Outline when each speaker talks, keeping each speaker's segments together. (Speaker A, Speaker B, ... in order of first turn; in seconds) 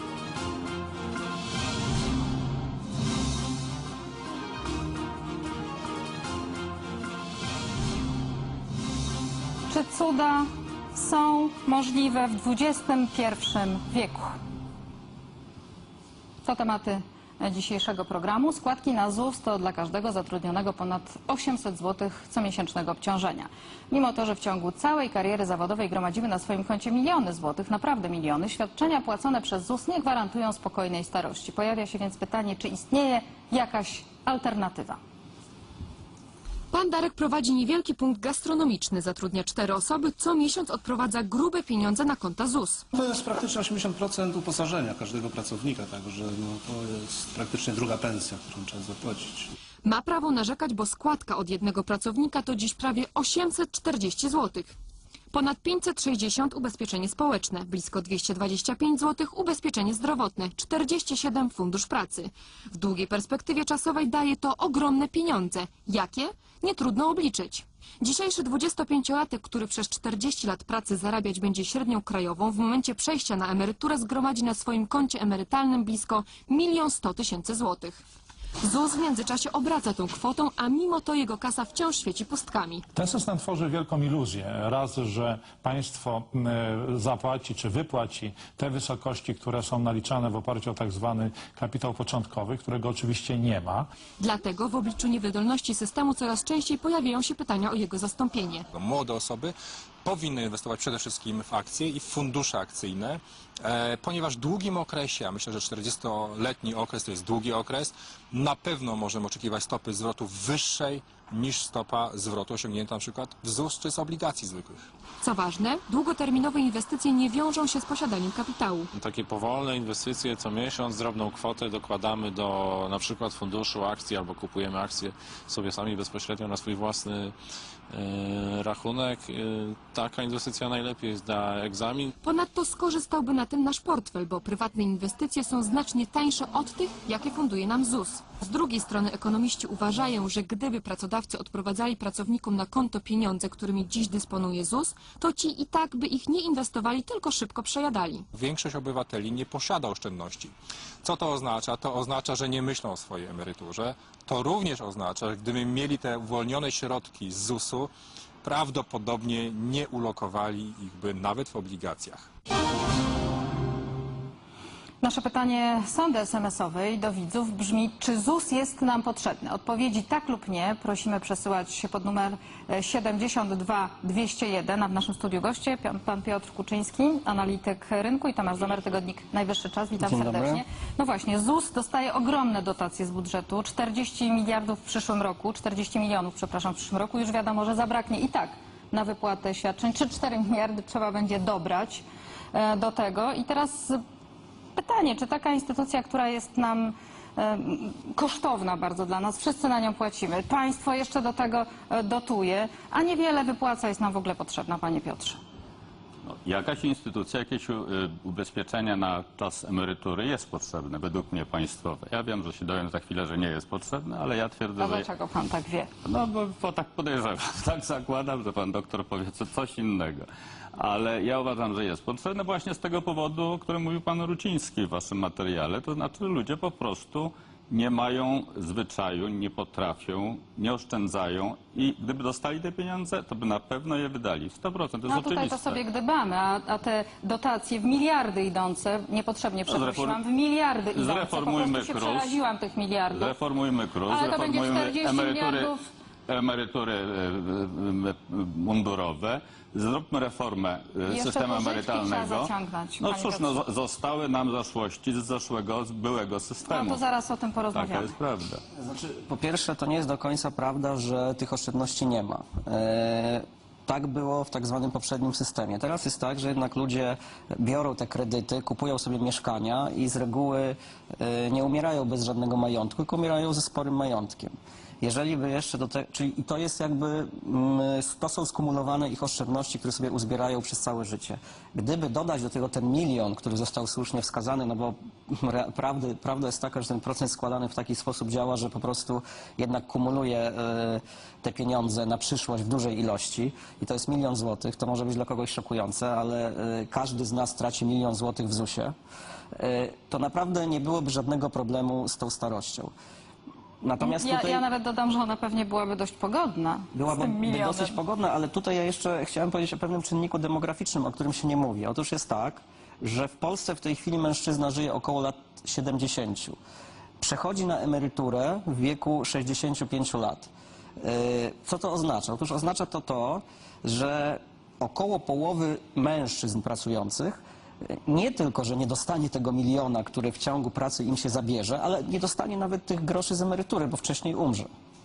Speaker A: 9.7-14.4, 16.4-35.0, 165.0-194.0, 194.8-205.4, 214.8-215.9, 235.1-243.4, 244.1-245.8, 251.1-253.6, 256.7-258.1, 304.0-308.0
Speaker B: 36.7-42.9, 49.8-54.7, 55.3-78.0, 78.6-82.8, 94.2-98.7, 115.2-118.9, 132.2-148.2
Speaker C: 43.0-49.5
Speaker D: 83.0-93.9
Speaker E: 98.7-114.9, 148.3-157.9, 158.4-162.3
Speaker F: 119.0-127.3, 127.9-132.1
Speaker G: 180.0-180.6, 258.7-298.9, 299.6-302.9, 303.8-304.6, 306.9-316.6, 317.2-334.7
Speaker H: 206.2-215.1, 216.0-235.8, 239.7-240.2, 240.9-242.4, 243.1-245.7, 246.3-257.0, 257.7-258.6